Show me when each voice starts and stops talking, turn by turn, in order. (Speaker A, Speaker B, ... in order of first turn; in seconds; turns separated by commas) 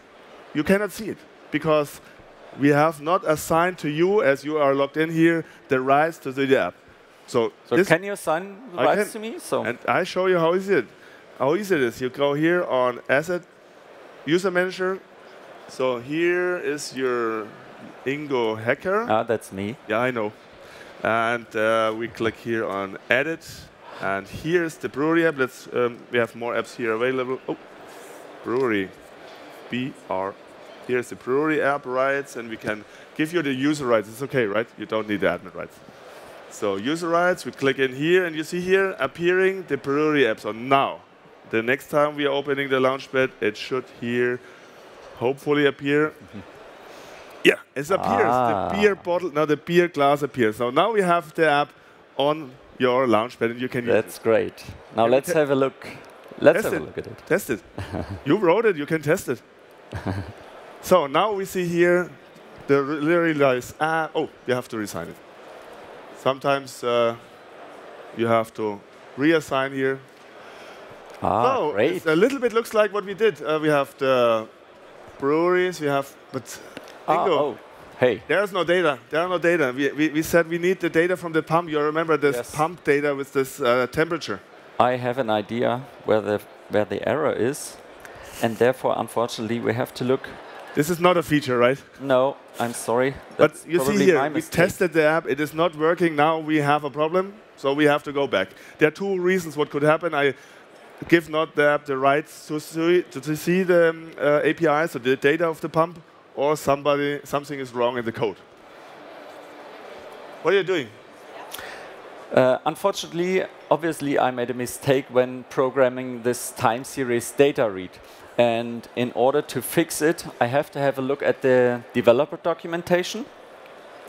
Speaker A: 0.5-2.0, Speaker A: 2.5-8.0, Speaker B: 7.7-9.7, Speaker A: 8.8-13.4, Speaker A: 14.2-15.0, Speaker A: 15.7-19.1, Speaker B: 19.1-19.8, Speaker A: 19.9-20.4, Speaker A: 21.0-27.6, Speaker A: 28.4-28.9, Speaker A: 29.7-35.8, Speaker A: 36.5-44.4, Speaker A: 45.1-46.2, Speaker A: 47.4-54.1, Speaker B: 47.9-49.0, Speaker B: 53.8-57.3, Speaker A: 55.0-55.4, Speaker A: 56.5-59.4, Speaker B: 57.8-58.2, Speaker B: 60.0-60.3, Speaker A: 60.8-62.1, Speaker A: 62.6-65.2, Speaker A: 66.2-67.2, Speaker A: 68.1-70.0, Speaker B: 71.2-72.0, Speaker A: 71.4-74.5, Speaker A: 75.2-77.5, Speaker B: 77.1-78.2, Speaker A: 78.3-84.4, Speaker B: 82.2-82.6, Speaker B: 84.8-87.8, Speaker B: 88.4-90.4, Speaker A: 90.7-91.9, Speaker B: 92.0-94.8, Speaker A: 93.4-100.3, Speaker A: 101.0-108.4, Speaker A: 110.4-110.9, Speaker B: 112.3-123.3